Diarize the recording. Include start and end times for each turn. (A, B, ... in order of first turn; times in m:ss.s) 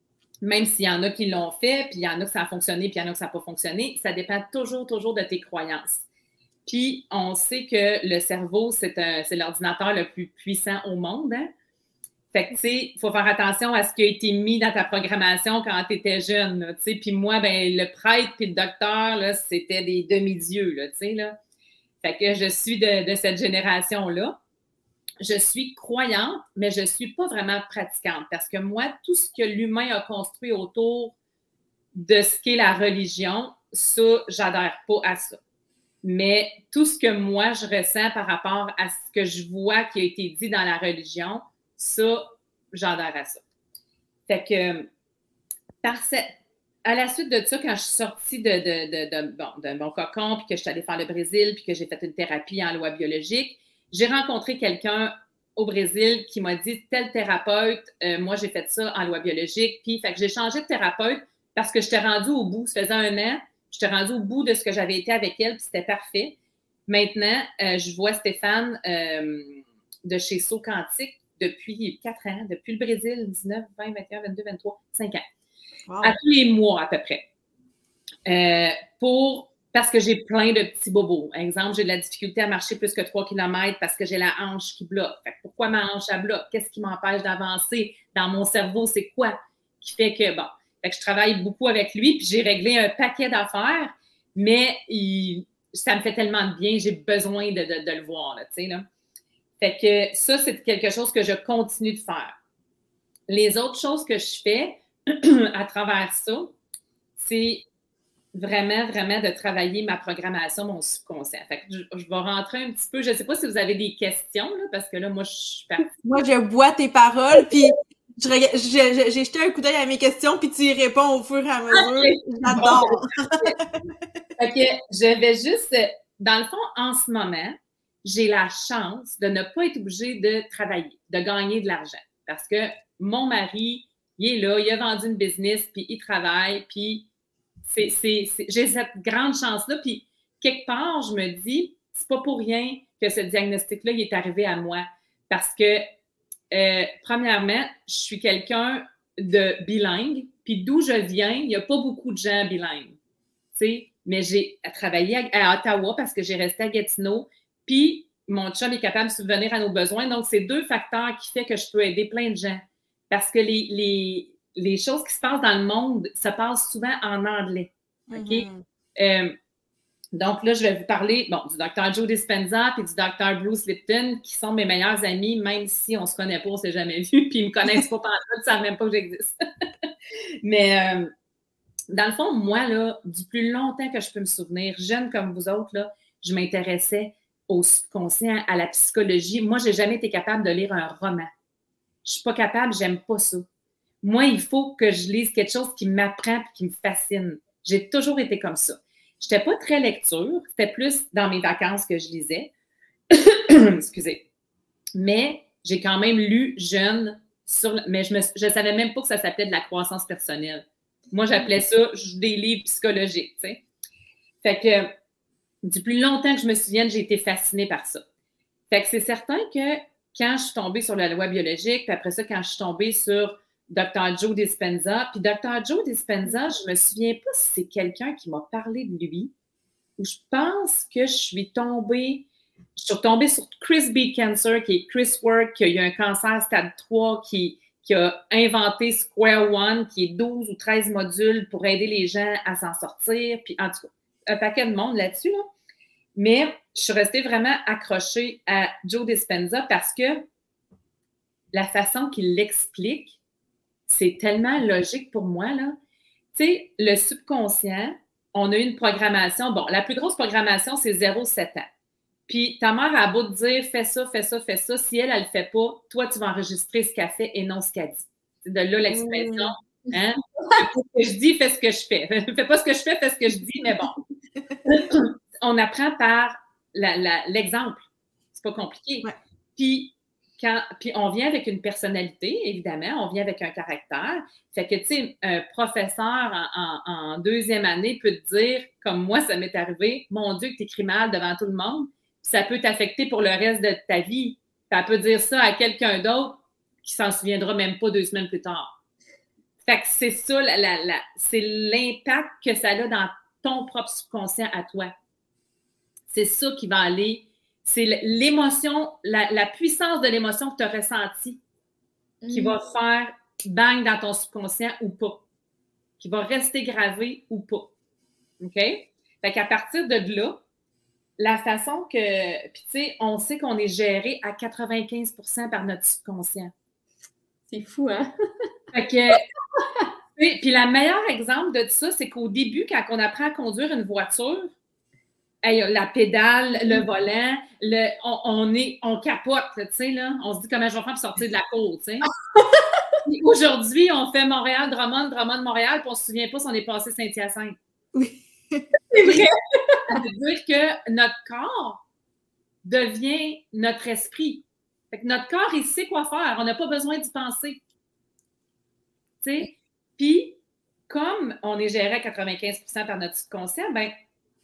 0:00.4-0:06.0 A
0:06.6-0:11.5 A
0:12.3-0:21.4 A
0:22.0-0:24.4 A
0:25.2-0:31.2 A
0:31.9-0:35.4 A
0:36.0-0:43.4 A
0:44.3-0:44.9 A
0:45.8-0:46.3 A
0:46.8-1:15.2 A
1:15.9-1:16.2 B
1:16.0-1:17.2 A
1:18.2-1:38.8 A
1:39.6-1:42.4 A
1:43.3-1:46.5 A
1:47.2-1:47.6 A
1:48.3-1:56.0 A
1:56.0-2:03.9 B
2:01.7-2:03.6 A
2:04.4-2:17.0 A
2:17.7-2:25.8 A
2:26.5-2:33.0 A
2:33.5-2:49.4 A
2:48.1-2:48.6 B
2:50.1-2:59.9 A
3:00.4-3:01.1 A
3:01.9-3:11.3 A
3:12.0-3:13.4 A
3:14.0-3:22.5 A
3:23.1-3:24.2 A
3:25.0-3:33.6 A
3:34.4-3:34.9 A
3:35.6-3:38.0 A
3:38.7-3:49.3 A
3:50.0-3:52.2 A
3:52.8-4:05.5 A
4:06.2-4:10.2 A
4:11.5-4:13.2 A
4:13.9-4:15.8 A
4:16.3-4:21.7 A
4:22.3-4:34.0 A
4:28.9-4:29.5 B
4:34.6-4:58.7 A
4:59.6-5:04.9 A
5:06.1-5:11.4 A
5:12.2-5:12.6 C
5:12.3-5:15.2 A
5:16.0-5:17.7 A
5:18.4-5:20.4 A
5:21.2-5:26.5 A
5:27.5-5:28.1 C
5:28.7-5:29.2 A
5:30.2-5:34.5 A
5:35.4-5:42.1 A
5:43.0-5:47.6 A
5:47.9-5:48.6 B
5:48.9-5:50.0 C
5:49.0-5:49.3 A
5:49.9-5:51.8 A
5:52.6-5:57.6 A
5:59.2-6:00.4 A
6:00.9-6:03.9 A